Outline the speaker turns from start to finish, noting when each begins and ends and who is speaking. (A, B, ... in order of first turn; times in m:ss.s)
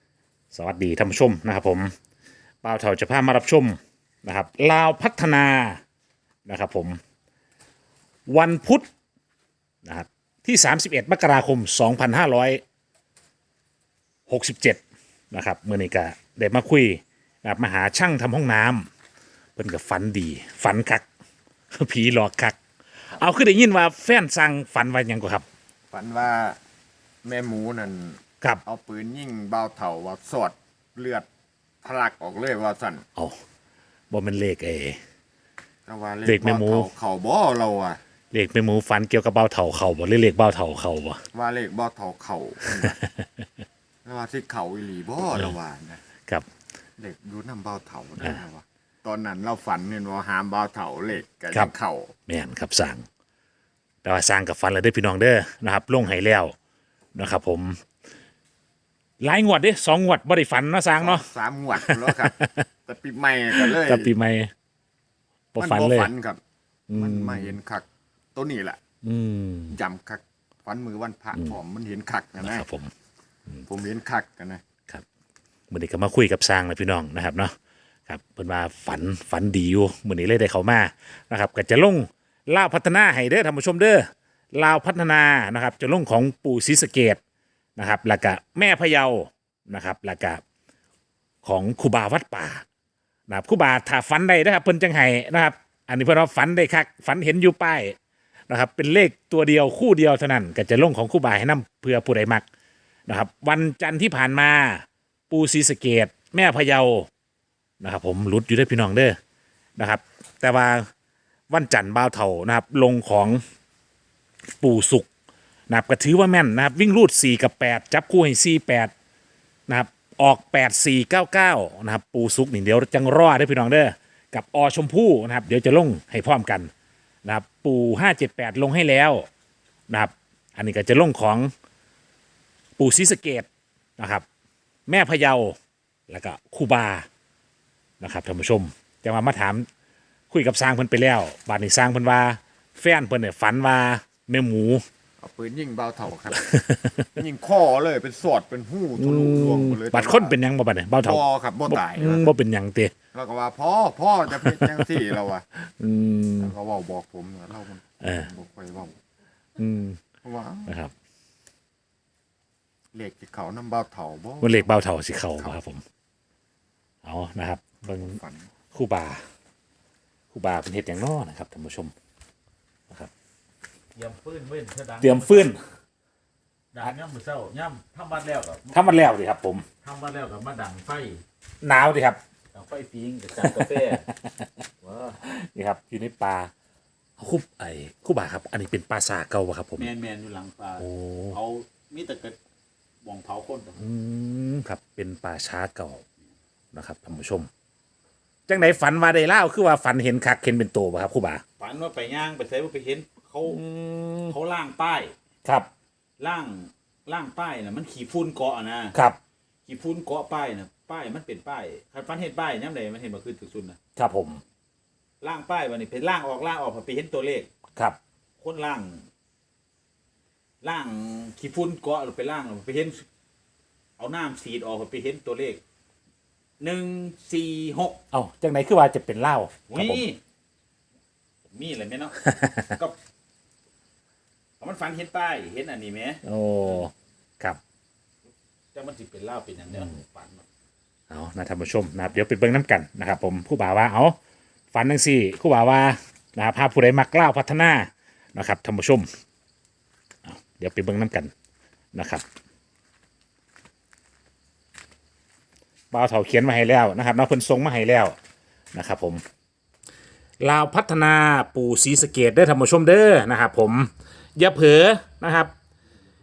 0:00.5-0:01.9 A
0:02.6-0:05.8 A
0:06.5-0:07.0 A
0:08.3-0:08.9 A
0:09.8-0:12.6 A
0:14.3-0:14.8 A
0:15.3-0:18.9 A
0:19.6-0:21.1 A
0:21.7-0:22.6 A
0:23.1-0:25.5 A
0:25.9-0:26.6 B
0:27.2-0:31.3 B
0:31.8-0:33.0 B
0:34.1-0:35.0 A
0:35.9-0:38.0 B
0:36.3-0:36.9 A
0:38.3-0:41.2 A
0:41.3-0:43.0 B
0:42.8-0:43.3 A
0:44.0-0:46.0 B
0:47.0-0:52.1 B
0:52.3-0:53.0 A
0:54.0-0:56.6 A
0:57.2-0:57.8 A
0:59.2-1:01.3 A
1:01.0-1:04.1 B
1:01.8-1:02.6 A
1:03.6-1:04.5 A
1:05.5-1:06.1 A
1:05.6-1:06.4 B
1:06.9-1:07.6 A
1:06.9-1:08.8 B
1:09.0-1:09.8 A
1:09.7-1:12.7 B
1:12.4-1:12.9 A
1:13.7-1:14.6 B
1:15.7-1:17.5 A
1:18.1-1:27.2 A
1:27.8-1:30.4 A
1:31.4-1:32.6 A
1:33.3-1:38.0 A
1:38.5-1:42.4 A
1:43.1-1:47.1 A
1:47.8-1:49.2 A
1:49.8-1:50.9 A
1:51.5-1:53.4 A
1:54.5-1:55.1 A
1:55.7-1:58.9 A
1:59.7-2:06.7 A
2:07.2-2:09.3 A
2:09.9-2:11.5 A
2:12.8-2:14.3 A
2:14.9-2:15.6 A
2:16.1-2:17.1 A
2:18.0-2:19.7 A
2:20.3-2:24.8 A
2:25.2-2:26.4 B
2:26.4-2:27.0 A
2:27.1-2:30.4 B
2:29.0-2:32.9 A
2:31.0-2:32.3 B
2:33.1-2:35.4 B
2:34.3-2:34.9 A
2:35.6-2:36.5 A
2:36.4-2:39.0 B
2:38.0-2:38.3 A
2:39.6-2:40.0 A
2:40.2-2:40.7 B
2:40.7-2:40.9 A
2:42.9-2:44.8 B
2:44.4-2:45.8 A
2:47.0-2:48.2 A
2:47.8-2:48.5 B
2:48.7-2:49.2 A
2:50.3-2:51.9 A
2:54.0-2:55.5 C
2:55.0-2:55.6 A
2:56.7-2:59.1 C
2:58.7-2:59.7 A
2:59.8-3:01.2 C
3:01.6-3:02.2 A
3:02.5-3:04.1 C
3:03.4-3:04.5 A
3:04.8-3:05.2 C
3:05.2-3:06.5 A
3:07.2-3:09.9 A
3:09.8-3:12.4 C
3:10.8-3:11.4 A
3:13.0-3:13.8 C
3:13.8-3:16.0 A
3:16.7-3:17.5 A
3:18.5-3:21.4 A
3:21.6-3:23.6 C
3:23.4-3:24.4 A
3:24.3-3:25.1 C
3:26.2-3:29.0 C
3:29.7-3:33.8 C
3:34.0-3:34.4 A
3:35.2-3:37.5 C
3:38.4-3:39.1 C
3:40.6-3:43.1 C
3:44.0-3:45.6 C
3:46.6-3:48.0 C
3:48.1-3:50.0 A
3:49.7-3:50.2 C
3:51.5-3:53.0 C
3:54.6-3:56.2 C
3:56.2-3:57.6 A
3:58.7-4:00.4 C
4:01.1-4:04.2 A
4:04.7-4:09.1 A
4:10.3-4:11.3 A
4:11.9-4:12.2 A
4:15.9-4:18.2 A
4:18.7-4:19.2 A
4:20.4-4:25.5 A